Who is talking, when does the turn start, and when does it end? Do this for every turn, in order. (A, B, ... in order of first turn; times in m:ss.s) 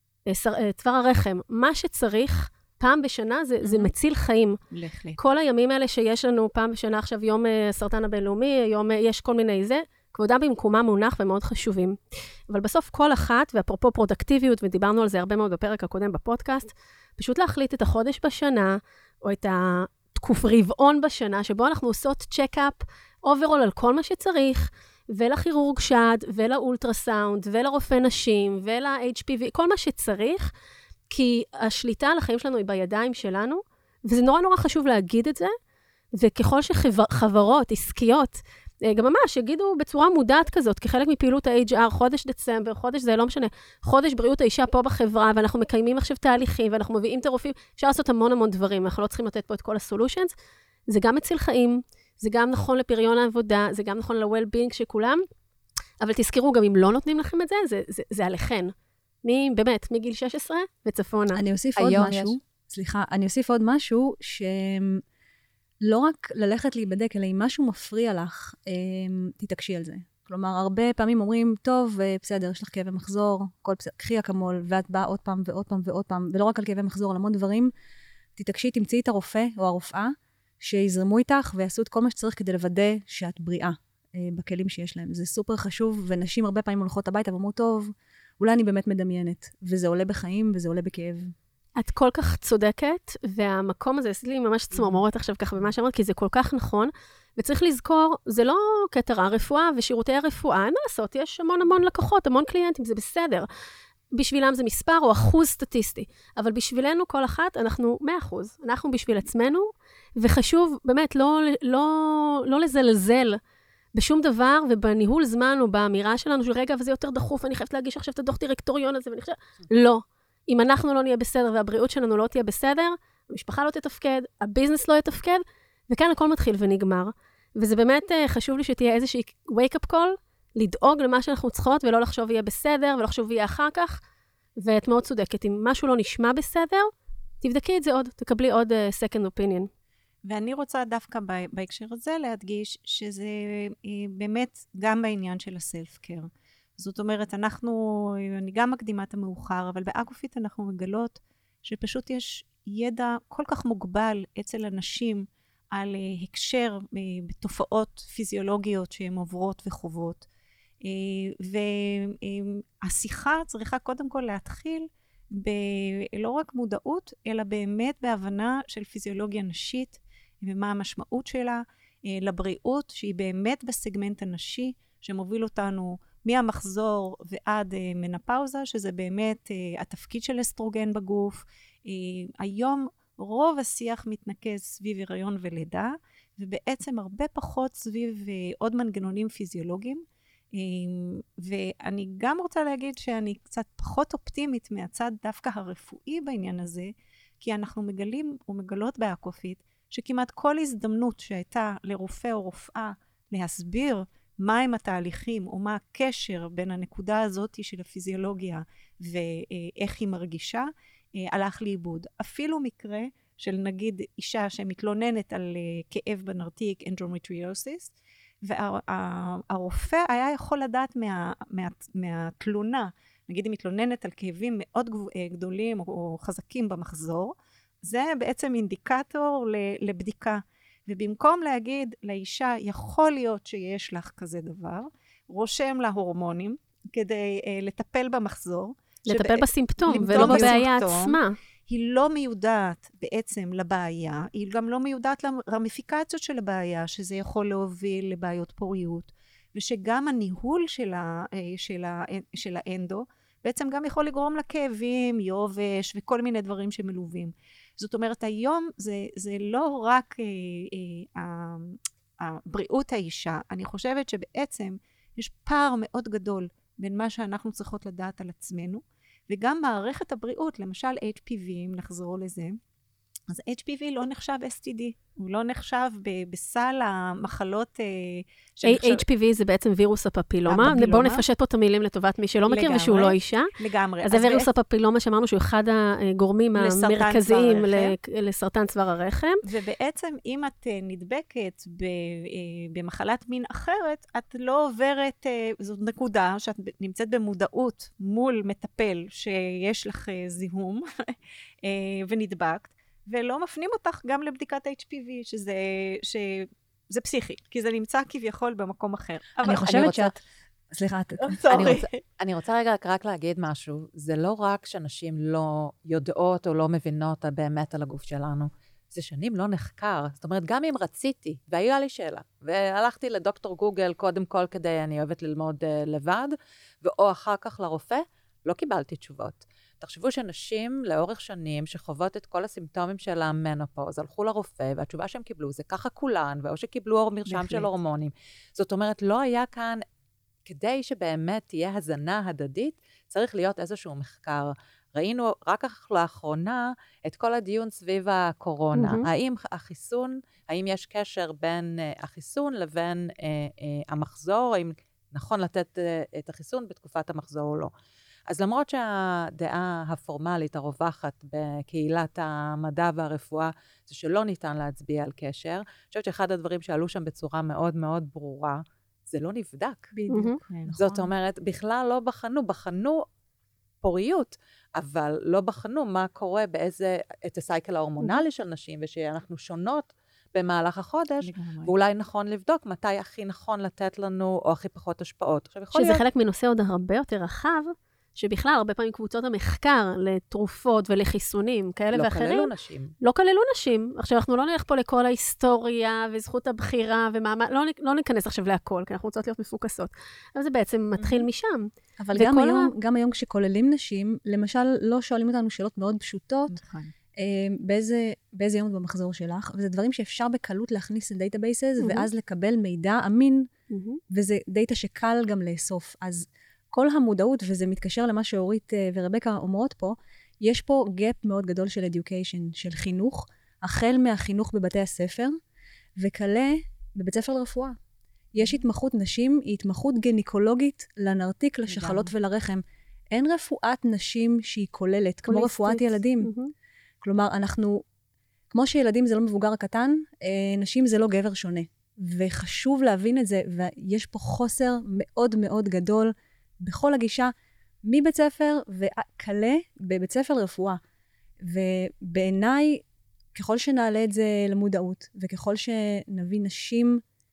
0:00.3-0:04.6 A
0:03.6-0:03.9 B
0:04.7-0:05.2 B
0:05.2-0:12.0 A
0:12.5-0:30.5 A
0:31.1-0:35.6 A
0:36.1-0:50.3 A
0:50.9-0:55.2 A
0:56.0-1:01.4 A
1:01.3-1:05.0 C
1:01.8-1:02.4 D
1:05.8-1:17.7 C
1:18.4-1:31.3 C
1:31.8-1:43.5 A
1:44.1-1:53.4 A
1:53.9-2:14.0 A
2:14.6-2:19.7 A
2:20.3-2:40.3 B
2:40.8-4:32.6 B
3:59.1-4:01.4 A
4:33.3-4:39.0 B
4:38.6-4:43.5 A
4:40.5-4:41.2 B
4:42.5-4:44.5 B
4:44.0-4:49.4 A
4:46.6-4:47.9 B
4:49.4-5:10.0 B
5:09.4-5:10.1 C
5:09.5-5:10.1 D
5:10.7-5:11.4 C
5:11.2-5:12.0 B
5:11.5-5:39.8 D
5:37.3-5:37.7 B
5:40.5-5:57.7 D
5:48.8-5:49.1 A
5:58.3-6:09.9 D
6:09.9-6:11.1 C
6:10.1-6:10.4 A
6:10.8-6:13.1 D
6:13.8-6:26.0 D
6:21.2-6:21.7 B
6:25.7-6:42.7 A
6:31.9-6:32.9 D
6:42.0-6:46.6 C
6:46.5-6:46.9 B
6:47.2-6:53.5 C
6:51.8-6:52.1 A
6:53.7-6:54.0 A
6:54.1-7:05.4 C
7:06.0-7:07.8 C
7:08.3-7:16.3 C
7:11.7-7:12.1 B
7:15.3-7:16.5 A
7:17.0-7:17.8 C
7:18.5-7:27.3 C
7:27.8-7:30.8 C
7:31.4-7:32.8 C
7:33.3-7:37.0 C